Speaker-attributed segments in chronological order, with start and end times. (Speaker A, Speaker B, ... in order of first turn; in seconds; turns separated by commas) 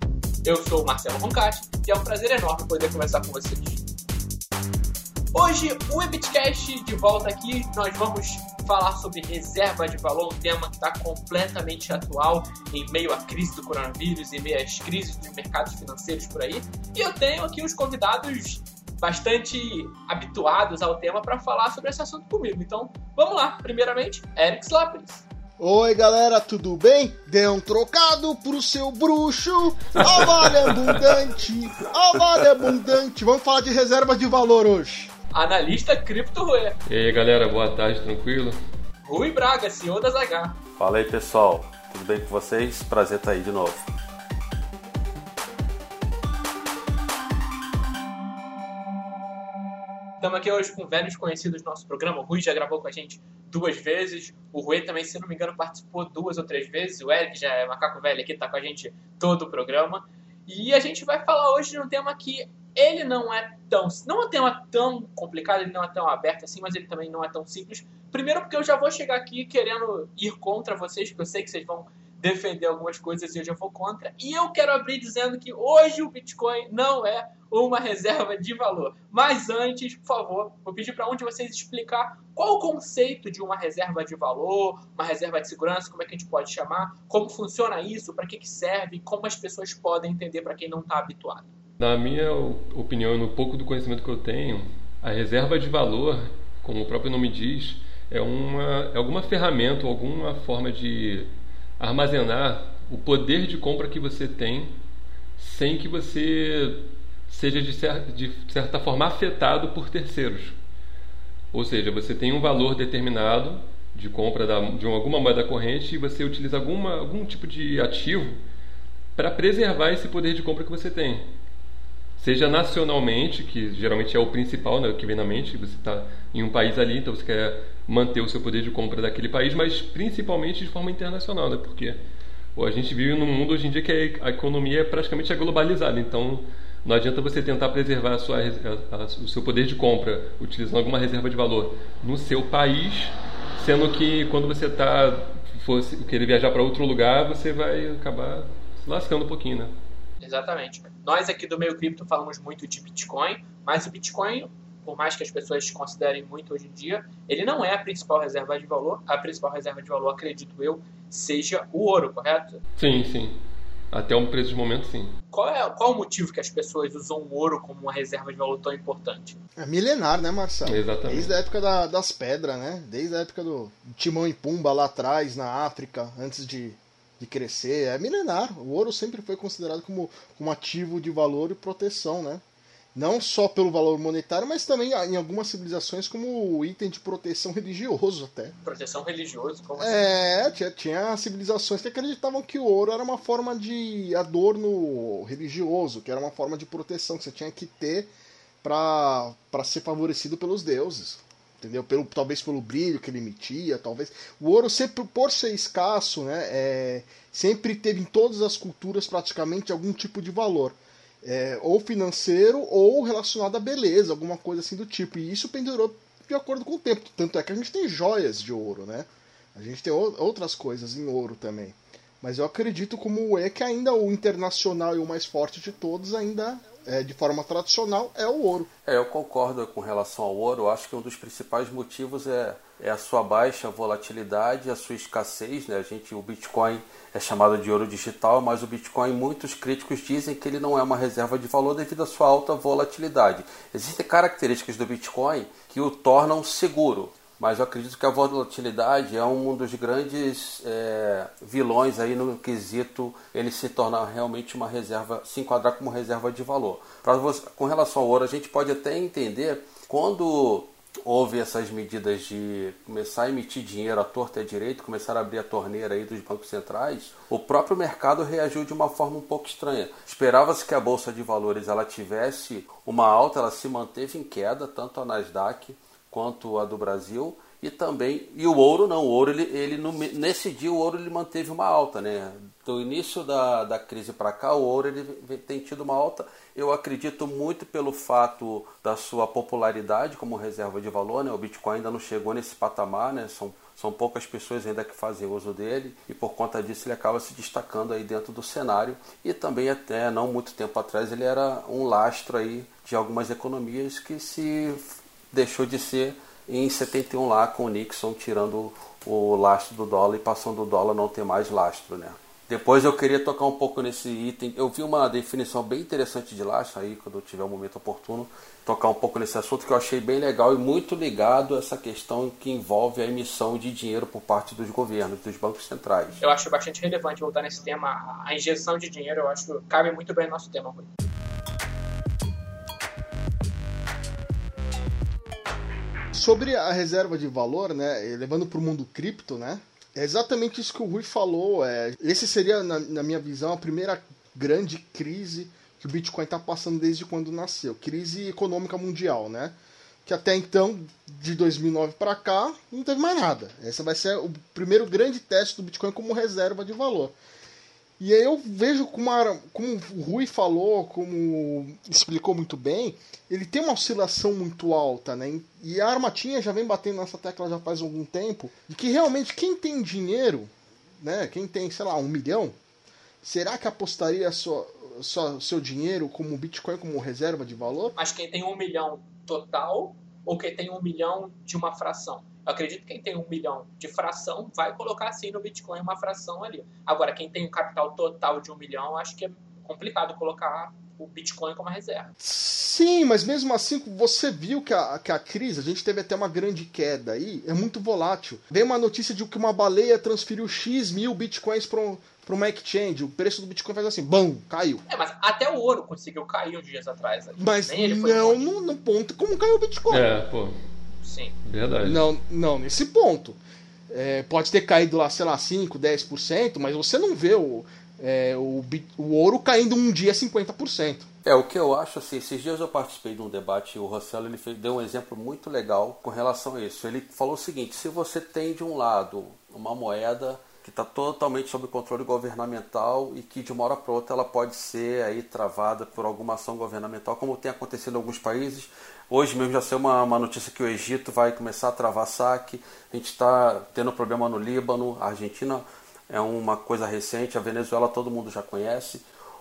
Speaker A: 0.4-3.8, Speaker A: 5.3-25.2, Speaker B: 25.6-35.1, Speaker A: 35.3-36.8, Speaker C: 36.9-38.6, Speaker A: 39.0-40.6, Speaker D: 40.8-43.9, Speaker A: 50.2-91.5, Speaker C: 91.8-104.8, Speaker C: 105.4-110.6, Speaker C: 111.5-118.4, Speaker C: 119.2-121.3, Speaker C: 122.2-132.0, Speaker C: 132.6-149.7, Speaker A: 150.2-162.6, Speaker C: 162.8-163.4, Speaker C: 163.9-165.2, Speaker A: 165.3-169.4, Speaker B: 169.6-182.4, Speaker C: 170.7-171.3, Speaker B: 182.9-188.6, Speaker A: 188.7-190.1, Speaker B: 189.8-228.7, Speaker D: 228.8-326.2, Speaker A: 326.2-330.9, Speaker B: 336.1-357.2, Speaker B: 358.0-372.6, Speaker B: 373.2-377.9, Speaker A: 378.0-392.1, Speaker B: 392.2-404.8, Speaker A: 404.9-408.4, Speaker B: 407.4-410.1, Speaker C: 409.9-410.6, Speaker A: 411.0-411.3, Speaker C: 411.4-412.0, Speaker B: 411.8-421.1, Speaker D: 421.2-449.1